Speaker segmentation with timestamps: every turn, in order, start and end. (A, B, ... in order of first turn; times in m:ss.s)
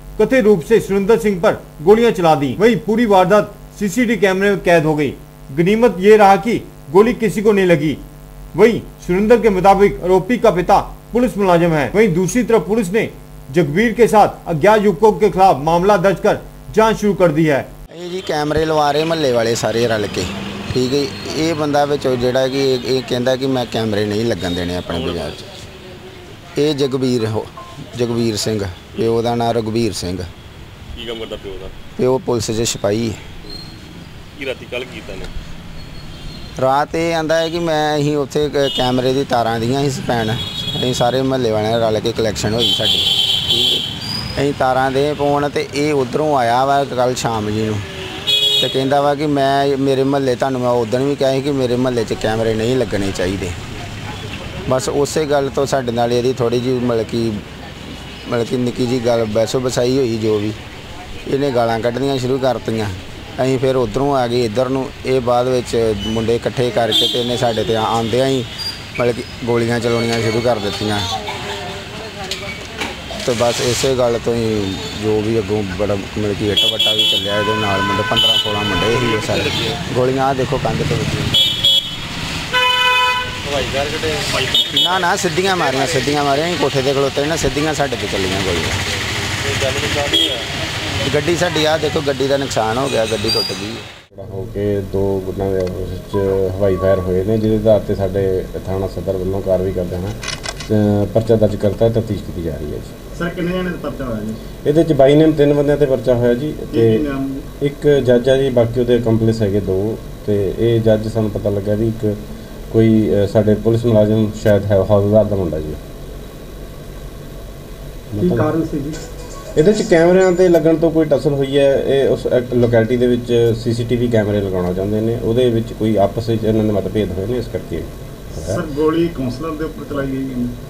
0:00.2-0:08.0 A
0:08.5-0:17.7 A
0:17.9-0:25.4 B
0:24.9-0:25.4 C
0:26.6-0:30.3 B
0:31.0-0:31.8 C
0:32.0-0:33.2 B
0:34.4-0:35.3 C
0:36.6-0:43.8 B
0:44.4-0:47.9 B
0:48.6-0:53.6 B
0:54.7-0:57.4 B
0:58.2-1:00.6 B
1:01.3-1:11.2 B
1:13.2-1:21.4 B
1:18.9-1:19.8 C
1:23.4-1:26.1 C
1:24.7-1:28.8 B
1:29.4-1:30.5 C
1:31.0-1:33.8 B
1:34.1-1:43.0 D
1:43.2-1:44.4 E
1:44.6-1:47.0 D
1:46.7-1:47.4 E
1:47.6-1:52.2 D
1:52.7-1:55.8 D
1:58.1-1:58.7 D
1:59.6-2:08.6 D
2:08.4-2:10.5 E